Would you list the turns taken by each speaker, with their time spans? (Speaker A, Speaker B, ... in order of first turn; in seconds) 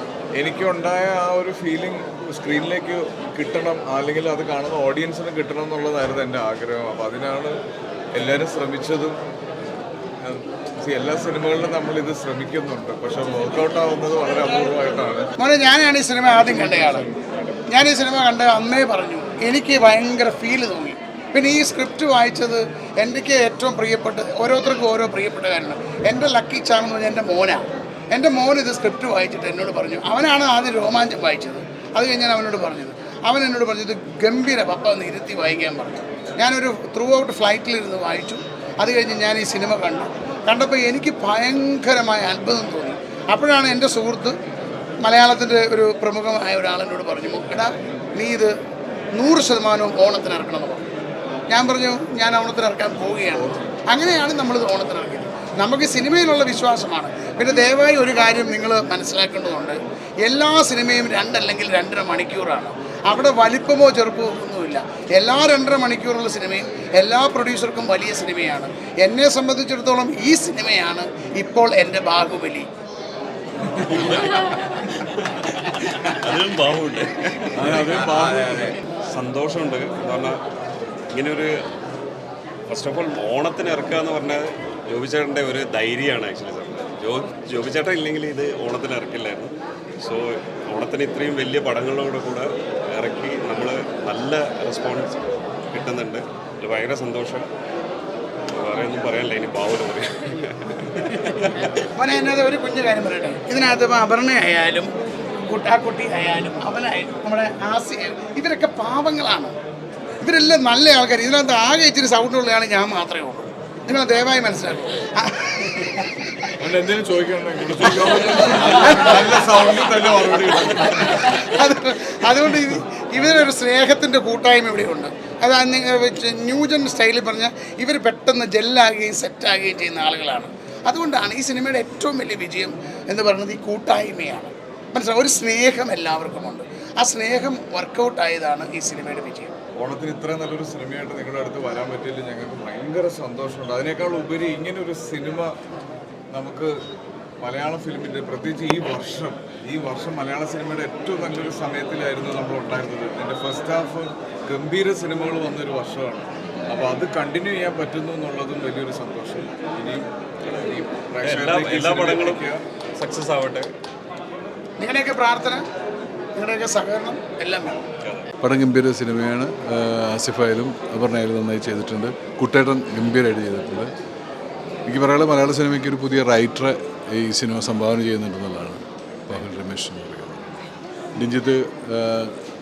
Speaker A: 0.4-7.6, 8.1-9.2, 10.2-15.3, 53.3-53.6, 77.5-78.8, 116.6-121.5, 139.8-145.5, 146.3-146.8, 147.4-160.1, 160.6-162.6
Speaker B: 15.4-17.2, 17.7-44.4, 45.0-48.5, 49.1-50.9, 51.5-72.7, 102.0-104.9, 105.5-109.5, 110.2-116.3, 118.5-119.4, 121.3-139.5, 164.8-165.6, 166.4-167.8
Speaker C: 73.8-78.3, 79.0-80.4, 81.1-81.5, 82.7-97.5, 98.6-101.8, 160.4-162.5, 163.0-163.7, 168.0-168.3
Speaker D: 168.4-173.9, 174.9-180.6, 181.2-182.4